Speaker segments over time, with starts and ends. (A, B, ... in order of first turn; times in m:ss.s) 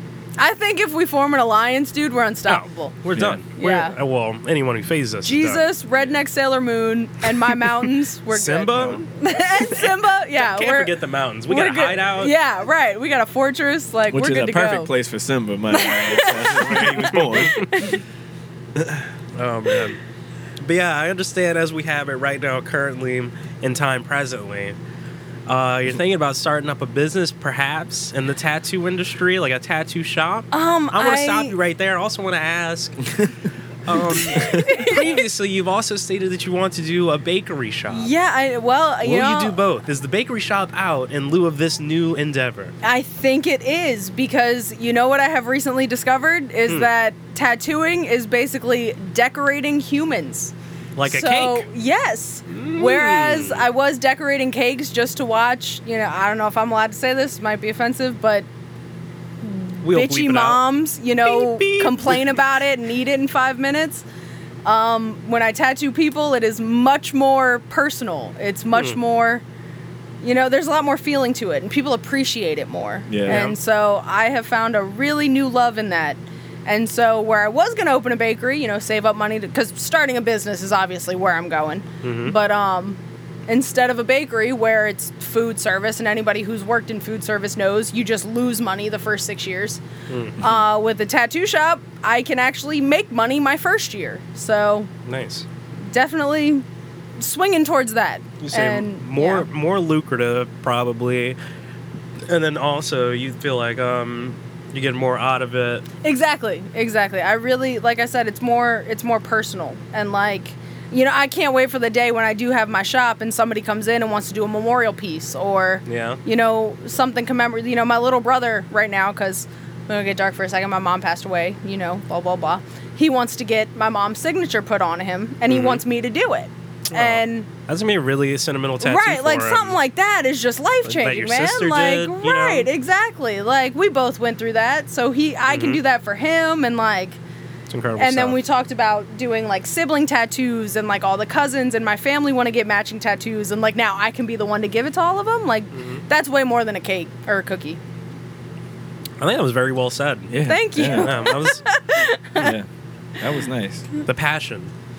0:00.4-0:03.0 A
0:02.5-0:05.6 B
0:03.2-0:03.4 C
0:03.6-0:04.0 A
0:05.2-0:10.9 A
0:08.3-0:09.0 B
0:09.8-0:12.4 B
0:11.5-0:14.9 A
0:14.1-0:17.8 C
0:15.7-0:18.0 A
0:17.1-0:17.8 B
0:18.8-0:19.0 C
0:19.4-0:20.0 B
0:20.6-0:24.8 B
0:25.5-0:33.0 B
0:30.5-0:31.5 A
0:33.9-0:38.1 B
0:34.3-0:35.1 A
0:37.9-0:39.6 A
0:39.0-0:42.7 B
0:42.8-0:50.5 A
0:51.0-0:51.7 B
0:51.0-0:58.5 A
0:52.5-0:53.6 B
0:59.4-1:04.0 A
0:59.8-1:00.6 B
1:01.2-1:02.4 B
1:04.6-1:09.4 A
1:10.2-1:29.8 A
1:13.1-1:13.4 C
1:13.3-1:13.6 B
1:22.0-1:22.4 B
1:30.1-1:30.4 B
1:30.4-1:34.9 A
1:35.1-1:35.5 B
1:35.9-1:36.6 A
1:37.2-1:39.5 A
1:38.4-1:41.4 B
1:42.3-1:45.9 B
1:46.0-2:07.5 A
1:55.9-1:56.2 B
2:05.5-2:05.8 B
2:06.9-2:09.8 B
2:08.8-2:17.2 A
2:10.8-2:12.7 B
2:15.5-2:15.8 B
2:17.7-2:18.4 B
2:18.0-2:27.8 A
2:25.7-2:26.0 B
2:29.2-2:31.6 B
2:30.3-2:31.2 C
2:30.4-2:32.6 A
2:32.4-2:32.7 C
2:33.2-2:33.9 C
2:34.1-2:34.7 B